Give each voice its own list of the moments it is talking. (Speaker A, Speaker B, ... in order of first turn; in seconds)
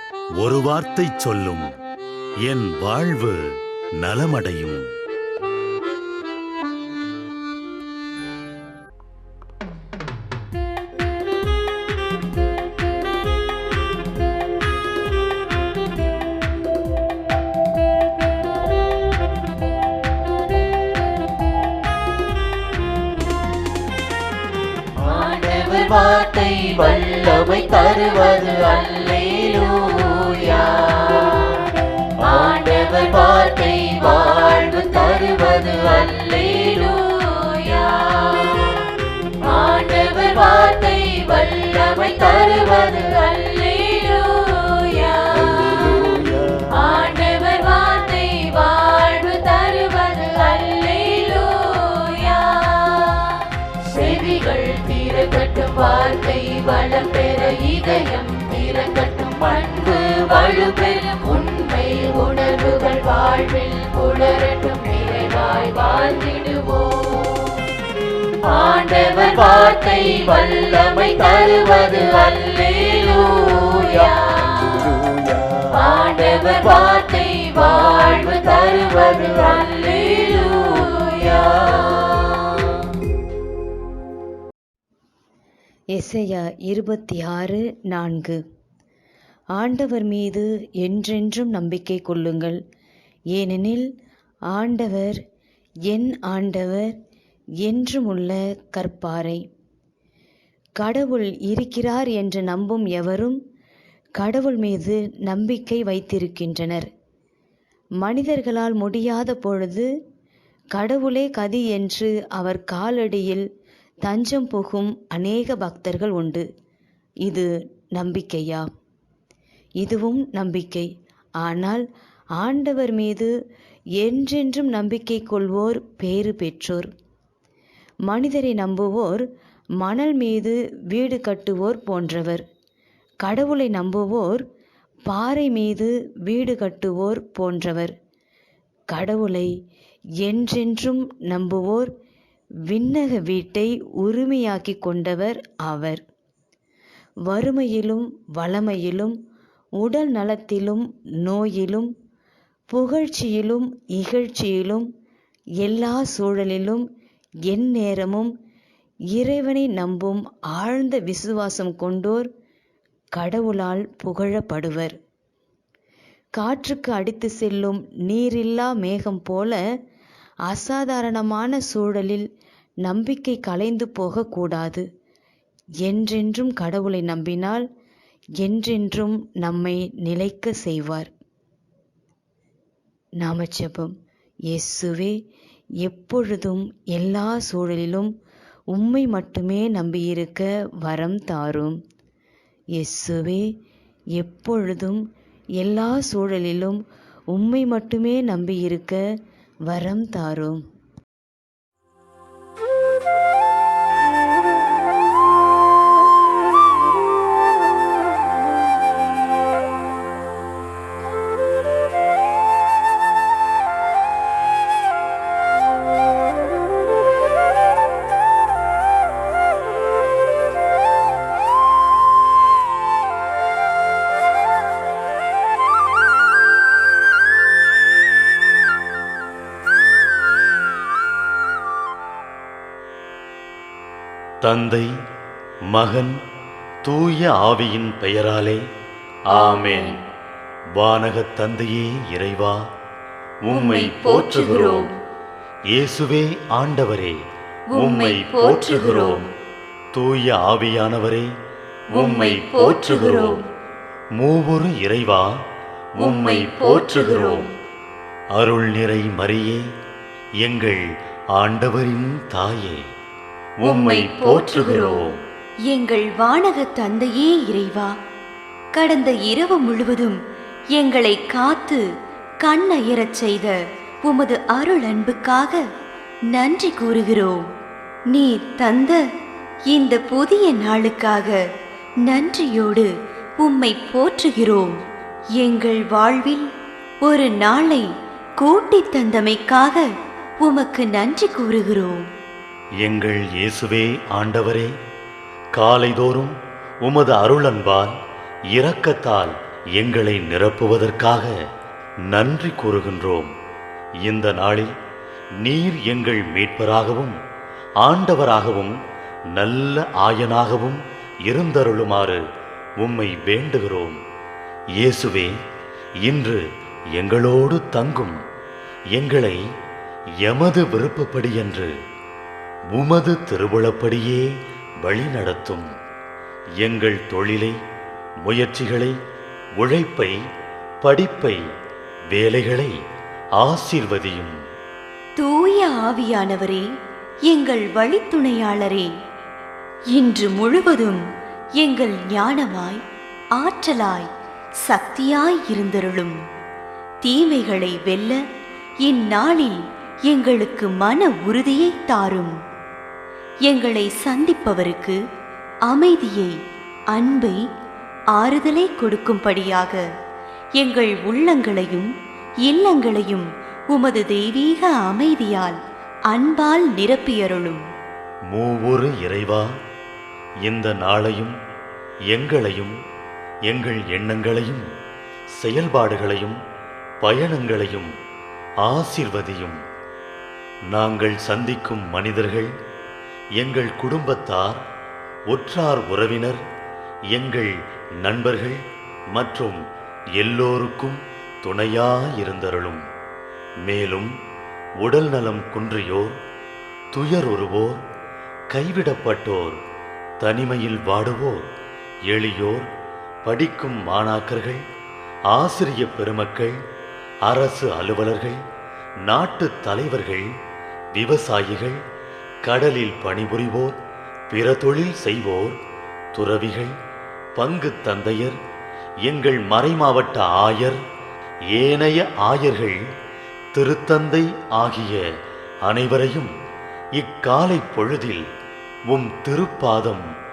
Speaker A: 0.4-1.7, 2.4-4.8, 234.4-234.9, 235.7-236.2, 236.8-238.6, 239.3-240.0, 240.8-242.6, 243.4-244.9, 245.7-247.2, 247.7-249.2, 249.9-251.3, 251.9-253.4, 254.2-255.3, 255.9-257.5, 258.3-259.6, 260.4-262.8, 263.6-265.2, 292.8-294.7, 295.6-297.9, 298.5-301.3, 302.1-303.3, 304.0-304.7, 305.4-307.1, 307.8-308.8, 309.3-312.2, 312.8-314.0, 314.8-315.3, 316.0-316.4, 316.9-318.2, 318.9-319.4, 320.2-321.7, 322.7-324.3, 324.8-325.7, 326.6-327.5, 328.2-328.9, 329.6-330.1, 330.8-331.4, 332.1-332.7, 333.4-334.3, 368.3-369.5, 370.4-371.4, 372.1-372.7, 373.5-374.7, 375.4-376.4, 377.0-377.9, 378.6-379.6, 380.7-382.5, 383.4-384.6, 385.3-386.4, 387.1-388.6, 389.1-389.6, 390.1-392.8, 393.6-394.1, 394.8-396.2, 396.9-397.8, 398.5-399.6, 400.2-401.5, 402.1-402.7, 403.2-404.6, 405.3-406.6, 407.2-408.4, 409.0-410.3, 410.9-411.8, 412.4-413.8, 414.3-415.6, 416.1-416.7, 417.4-418.3, 419.0-420.8, 421.5-422.8, 423.5-425.0, 425.6-426.3, 426.9-428.2, 428.9-430.1
Speaker B: 25.0-67.6, 68.4-82.7
Speaker C: 43.5-44.1, 239.3-239.9, 243.5-244.8, 247.8-249.2, 251.9-253.3, 256.0-257.4, 263.6-265.1, 265.7-267.9, 268.8-270.1, 270.8-271.8, 272.4-273.5, 274.1-275.5, 276.3-277.4, 278.1-279.0, 279.7-281.3, 282.1-282.9, 283.4-284.7, 285.4-286.4, 287.0-287.8, 288.4-289.8, 290.4-292.0, 335.2-336.6, 337.3-338.9, 339.9-341.0, 341.6-342.8, 343.4-344.0, 344.7-346.1, 347.1-348.1, 348.9-349.5, 350.1-352.3, 353.5-354.9, 355.7-356.3, 356.9-357.4, 358.2-359.8, 360.6-361.9, 362.5-365.5, 366.1-367.6
Speaker D: 85.9-88.4, 89.5-92.6, 93.3-93.9, 94.5-95.2, 95.9-96.9, 97.6-99.4, 100.8-103.4, 104.2-106.9, 108.0-109.9, 110.7-113.5, 114.0-116.4, 117.2-118.7, 119.8-120.9, 121.4-121.8, 122.4-123.3, 124.0-126.9, 128.1-129.2, 129.8-132.4, 133.2-134.4, 135.1-137.9, 138.9-139.5, 140.2-141.9, 142.7-146.0, 147.3-149.1, 149.8-151.9, 152.7-154.9, 155.6-156.8, 157.5-158.3, 159.1-162.3, 163.2-164.9, 166.4-169.6, 170.5-172.2, 172.8-174.8, 175.8-177.6, 178.4-181.1, 183.2-183.9, 184.5-185.2, 185.8-188.1, 188.7-191.8, 192.8-193.4, 194.2-195.0, 195.6-196.8, 197.3-199.0, 199.7-200.6